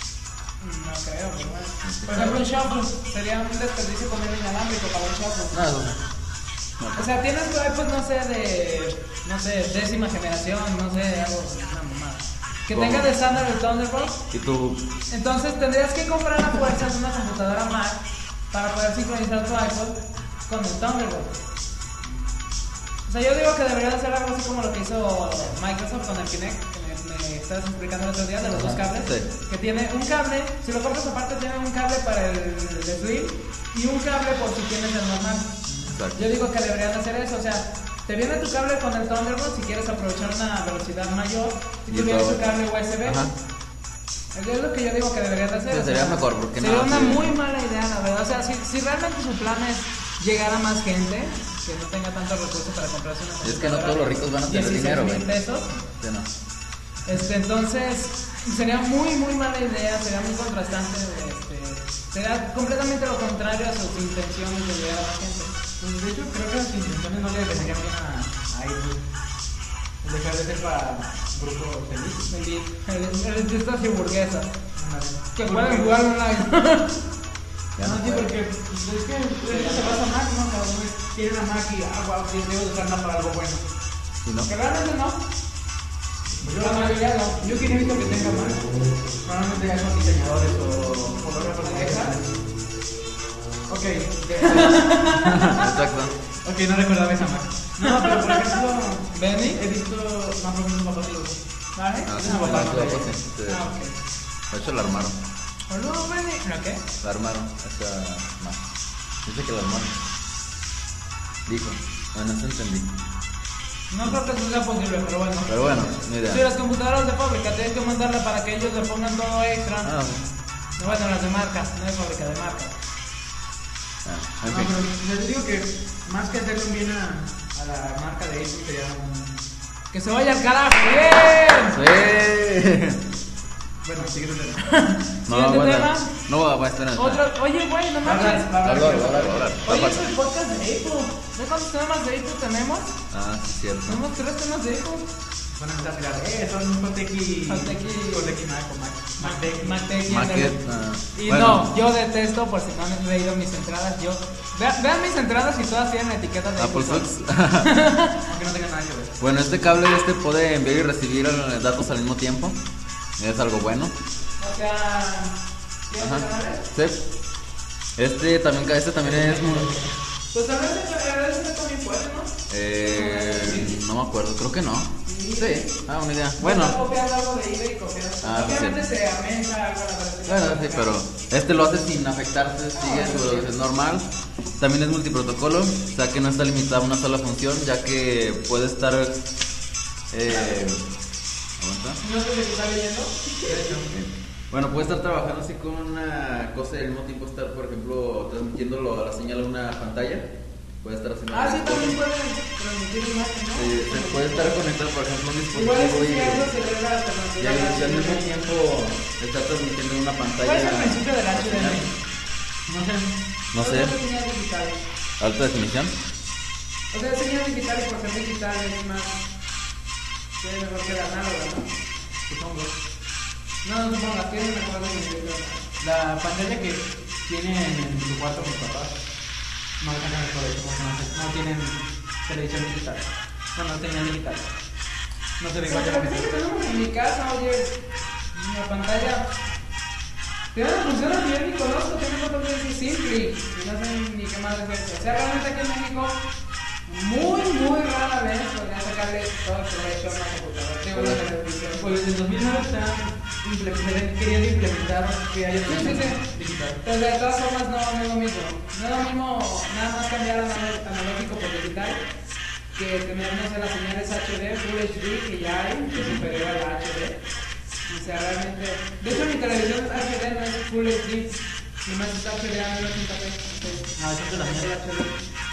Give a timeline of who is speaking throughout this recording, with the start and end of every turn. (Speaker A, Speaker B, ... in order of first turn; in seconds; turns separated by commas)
Speaker A: 0.6-5.6, Speaker B: 1.8-2.4, Speaker B: 5.5-6.0, Speaker B: 6.8-7.2, Speaker A: 7.0-14.2, Speaker B: 12.7-13.1, Speaker B: 14.3-14.8, Speaker A: 15.1-21.3, Speaker A: 23.1-35.6, Speaker B: 28.5-29.3, Speaker B: 35.9-36.3, Speaker A: 36.1-43.3, Speaker B: 41.9-42.4, Speaker B: 43.0-43.3, Speaker A: 44.3-55.8, Speaker B: 45.7-47.3, Speaker B: 53.4-55.3, Speaker B: 56.0-56.3, Speaker A: 57.0-65.6, Speaker C: 65.8-69.0, Speaker C: 70.0-72.3, Speaker A: 72.3-74.5, Speaker C: 74.8-75.9, Speaker A: 75.4-77.0, Speaker B: 77.8-78.3, Speaker C: 77.8-83.6, Speaker A: 79.5-80.0, Speaker B: 84.2-84.5, Speaker A: 84.5-85.2, Speaker C: 86.4-88.6, Speaker A: 86.6-87.4, Speaker C: 89.2-92.3, Speaker A: 91.6-92.1, Speaker C: 93.7-95.2, Speaker A: 94.4-95.8, Speaker B: 95.1-96.1, Speaker C: 96.4-101.4, Speaker A: 97.8-99.6, Speaker A: 101.8-104.0, Speaker B: 102.1-103.6, Speaker C: 102.2-103.1, Speaker B: 104.5-105.2, Speaker A: 105.7-106.8, Speaker B: 107.0-108.6, Speaker B: 109.2-110.0, Speaker B: 111.5-112.9, Speaker A: 113.9-120.0, Speaker B: 115.5-116.4, Speaker B: 119.8-120.3, Speaker A: 120.8-122.7, Speaker B: 124.0-124.7, Speaker C: 124.5-129.4, Speaker A: 129.9-131.8, Speaker B: 131.7-133.0, Speaker C: 133.8-134.7, Speaker A: 134.7-136.2, Speaker B: 135.3-137.2, Speaker A: 137.0-138.6, Speaker C: 138.0-139.6, Speaker B: 138.6-140.1, Speaker A: 139.7-142.9, Speaker B: 143.1-144.0, Speaker A: 143.9-145.1, Speaker C: 145.5-149.8, Speaker A: 147.5-148.4, Speaker A: 149.2-150.6, Speaker B: 150.1-151.7, Speaker A: 151.2-157.1, Speaker B: 156.6-157.8, Speaker A: 157.6-158.2, Speaker C: 158.2-159.1, Speaker B: 159.2-162.6, Speaker B: 163.2-163.9, Speaker A: 164.4-165.4, Speaker A: 165.9-166.6, Speaker B: 166.0-167.0, Speaker B: 168.0-169.7, Speaker C: 169.0-169.9, Speaker A: 170.3-172.4, Speaker B: 172.5-176.8, Speaker A: 172.9-173.8, Speaker A: 175.1-175.7, Speaker A: 176.4-180.9, Speaker B: 178.2-178.8, Speaker B: 180.3-189.3, Speaker A: 182.8-183.5, Speaker B: 190.1-190.8, Speaker B: 191.6-192.0, Speaker A: 192.0-193.6, Speaker C: 193.4-193.9, Speaker B: 193.9-200.3, Speaker B: 200.8-202.0, Speaker A: 201.3-204.6, Speaker B: 203.6-206.5, Speaker A: 205.5-208.3, Speaker B: 207.4-211.8, Speaker A: 210.4-211.9, Speaker C: 212.7-213.1, Speaker B: 213.5-213.9, Speaker A: 213.6-214.8, Speaker B: 215.2-215.9, Speaker A: 216.9-219.2, Speaker A: 220.4-221.7, Speaker C: 222.3-222.7, Speaker A: 223.6-225.7, Speaker C: 225.8-228.9, Speaker C: 229.8-234.5, Speaker C: 235.4-236.3, Speaker A: 235.7-237.8, Speaker A: 238.3-239.3, Speaker A: 240.5-246.3, Speaker A: 246.9-252.0, Speaker B: 250.9-251.2, Speaker C: 251.8-256.8, Speaker A: 255.7-256.2, Speaker A: 256.8-262.1, Speaker A: 262.8-267.2, Speaker B: 266.0-266.3, Speaker A: 267.9-275.2, Speaker C: 274.0-274.7